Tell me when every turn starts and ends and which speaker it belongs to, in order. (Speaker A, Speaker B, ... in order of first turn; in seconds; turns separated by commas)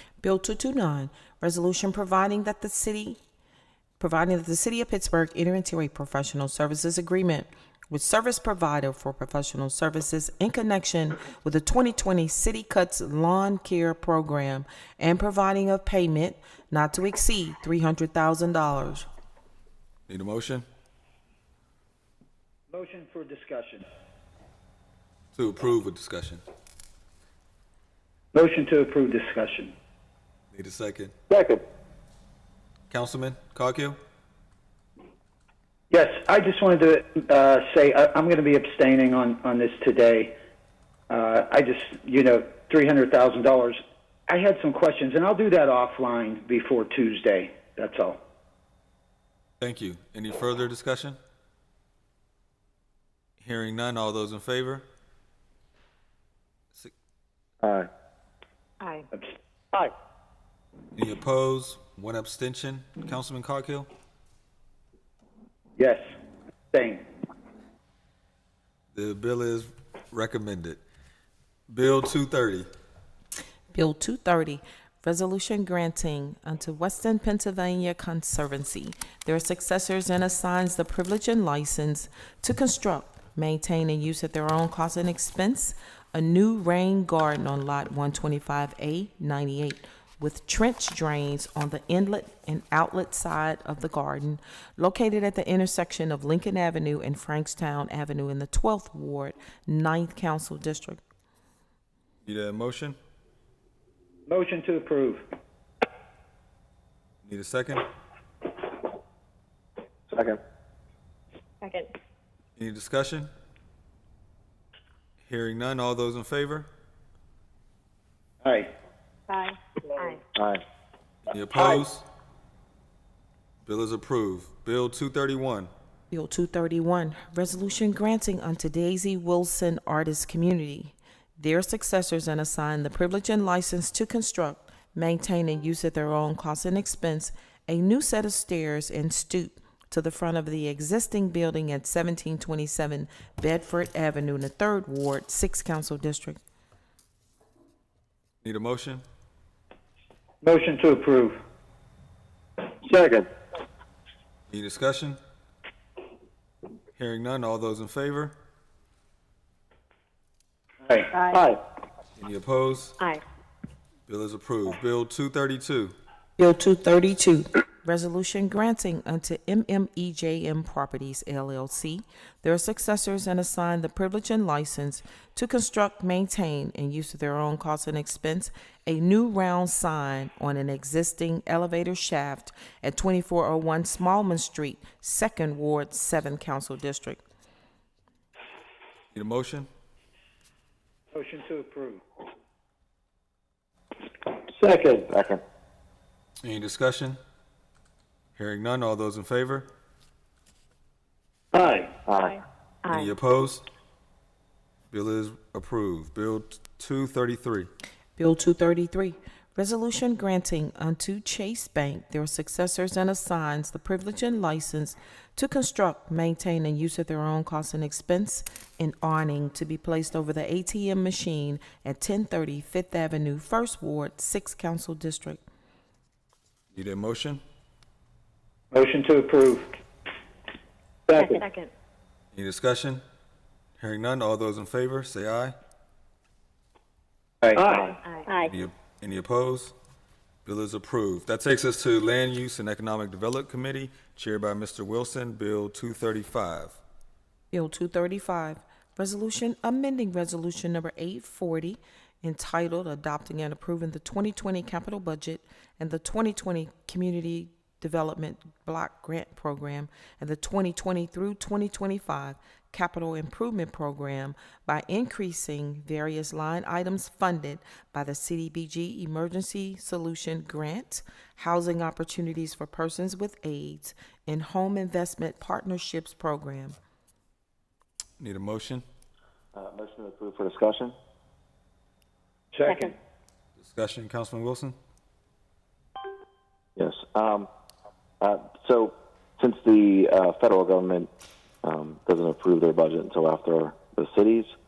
Speaker A: 0.2-3.2, Speaker A: 4.0-19.1, Speaker B: 20.1-20.7, Speaker C: 22.7-23.9, Speaker B: 25.3-26.4, Speaker C: 28.3-29.7, Speaker B: 30.5-31.1, Speaker B: 32.9-34.0, Speaker C: 35.9-40.3, Speaker C: 41.1-48.2, Speaker B: 49.6-51.2, Speaker B: 53.4-54.9, Speaker D: 57.6-57.9, Speaker E: 58.8-59.1, Speaker B: 60.9-63.9, Speaker C: 66.7-67.0, Speaker B: 68.9-70.8, Speaker B: 71.7-72.7, Speaker A: 73.7-101.0, Speaker B: 102.2-103.0, Speaker C: 104.3-105.2, Speaker B: 107.2-107.9, Speaker D: 110.1-110.4, Speaker E: 111.6-111.9, Speaker B: 112.6-113.3, Speaker B: 115.2-116.7, Speaker C: 118.4-118.7, Speaker E: 119.3-120.2, Speaker D: 120.3-120.6, Speaker B: 121.2-122.0, Speaker B: 123.6-125.7, Speaker A: 126.1-146.4, Speaker B: 148.4-149.0, Speaker C: 150.4-151.3, Speaker B: 154.5-155.2, Speaker B: 156.9-158.3, Speaker C: 160.8-161.1, Speaker E: 161.1-161.4, Speaker B: 162.2-163.0, Speaker B: 164.1-165.9, Speaker A: 166.4-187.2, Speaker B: 189.1-189.7, Speaker C: 191.1-192.0, Speaker D: 194.5-195.4, Speaker B: 196.4-197.2, Speaker B: 198.3-199.7, Speaker D: 202.1-202.4, Speaker E: 202.8-203.1, Speaker B: 202.9-203.6, Speaker B: 204.9-207.7, Speaker A: 208.2-225.4, Speaker B: 226.7-227.4, Speaker C: 228.7-229.7, Speaker C: 231.1-231.4, Speaker E: 231.2-231.7, Speaker B: 232.3-233.0, Speaker B: 233.8-235.6, Speaker C: 237.4-237.9, Speaker D: 237.6-237.9, Speaker E: 238.0-238.5, Speaker B: 238.5-239.7, Speaker B: 240.4-246.8, Speaker A: 247.5-276.8, Speaker B: 278.2-278.8, Speaker D: 279.5-280.9, Speaker C: 282.5-282.9, Speaker B: 283.6-284.8, Speaker D: 286.8-287.5, Speaker D: 288.2-291.1, Speaker D: 291.6-294.5